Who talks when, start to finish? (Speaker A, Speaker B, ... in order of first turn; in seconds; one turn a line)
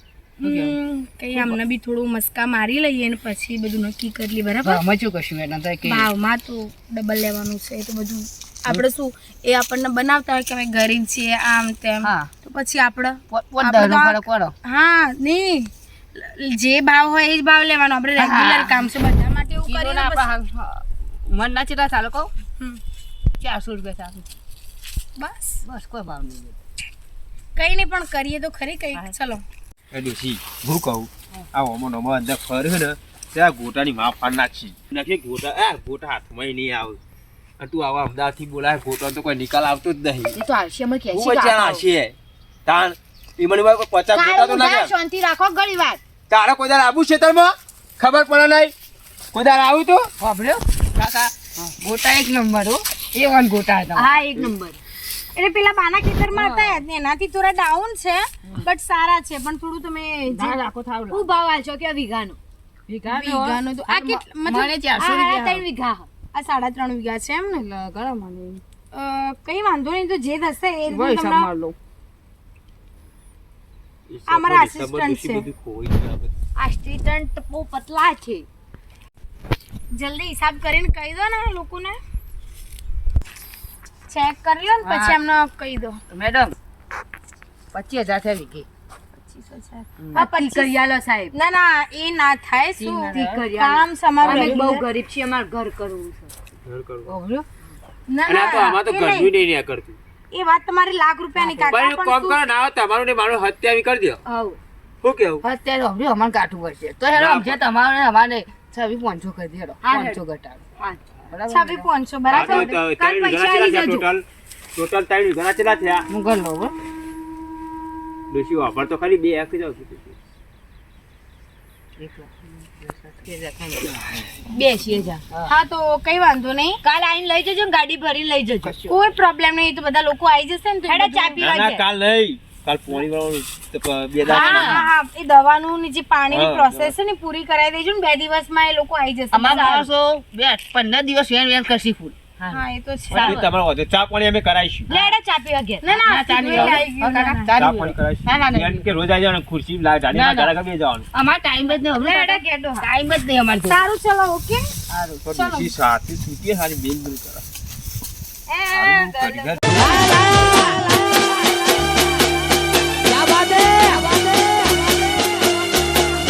Speaker A: 0.4-4.8
Speaker B: 0.4-0.8
Speaker B: 4.6-6.1
Speaker A: 5.8-20.3
Speaker B: 12.0-12.3
Speaker B: 13.3-14.5
Speaker B: 18.2-18.9
Speaker B: 19.6-22.3
Speaker B: 23.4-24.2
Speaker A: 25.2-25.6
Speaker B: 25.6-26.6
Speaker A: 27.6-29.4
Speaker C: 29.9-37.0
Speaker C: 37.6-40.4
Speaker D: 40.3-41.8
Speaker C: 41.1-42.1
Speaker C: 42.6-44.9
Speaker D: 44.1-46.0
Speaker C: 46.3-48.7
Speaker C: 49.3-50.1
Speaker B: 50.2-54.2
Speaker D: 53.9-54.8
Speaker A: 55.3-60.6
Speaker B: 56.3-56.8
Speaker B: 60.2-61.2
Speaker D: 61.1-62.4
Speaker B: 62.9-65.6
Speaker A: 63.1-64.7
Speaker D: 65.0-66.1
Speaker A: 66.3-67.7
Speaker B: 67.5-68.6
Speaker A: 68.9-71.5
Speaker B: 70.9-71.8
Speaker C: 74.1-76.3
Speaker A: 74.3-75.5
Speaker D: 76.6-78.4
Speaker A: 79.9-82.0
Speaker A: 84.1-86.0
Speaker B: 84.8-85.2
Speaker B: 86.1-86.5
Speaker B: 87.7-88.7
Speaker A: 89.2-90.7
Speaker D: 90.1-91.3
Speaker A: 91.3-94.8
Speaker B: 92.8-93.4
Speaker D: 93.1-96.3
Speaker B: 94.2-94.8
Speaker C: 96.6-97.1
Speaker B: 97.0-97.5
Speaker A: 98.1-99.3
Speaker C: 98.3-100.0
Speaker A: 100.3-102.4
Speaker B: 101.3-101.7
Speaker C: 101.6-104.2
Speaker B: 104.3-104.6
Speaker C: 105.0-105.4
Speaker B: 105.4-112.7
Speaker C: 107.1-107.6
Speaker D: 109.8-110.2
Speaker A: 111.5-114.0
Speaker C: 112.3-114.2
Speaker D: 113.3-113.6
Speaker C: 114.8-116.1
Speaker B: 116.1-116.7
Speaker C: 118.3-120.2
Speaker B: 122.0-125.5
Speaker D: 124.4-125.2
Speaker A: 125.5-126.8
Speaker D: 126.8-129.0
Speaker A: 128.9-131.4
Speaker D: 130.9-131.8
Speaker C: 131.3-134.9
Speaker B: 134.2-134.8
Speaker A: 134.2-139.9
Speaker C: 136.3-136.9
Speaker B: 139.3-143.4
Speaker A: 142.5-143.4
Speaker C: 143.1-144.9
Speaker D: 144.9-145.8
Speaker B: 144.9-145.2
Speaker A: 145.8-147.6
Speaker B: 145.8-148.9
Speaker C: 146.5-146.9
Speaker C: 147.6-151.1
Speaker B: 150.1-150.5
Speaker B: 151.1-153.8
Speaker D: 152.0-152.9
Speaker A: 153.7-154.6
Speaker B: 154.9-155.2
Speaker C: 155.2-157.4
Speaker A: 155.3-155.7
Speaker A: 158.5-159.8
Speaker C: 158.7-159.8
Speaker B: 159.7-161.4
Speaker B: 163.1-164.1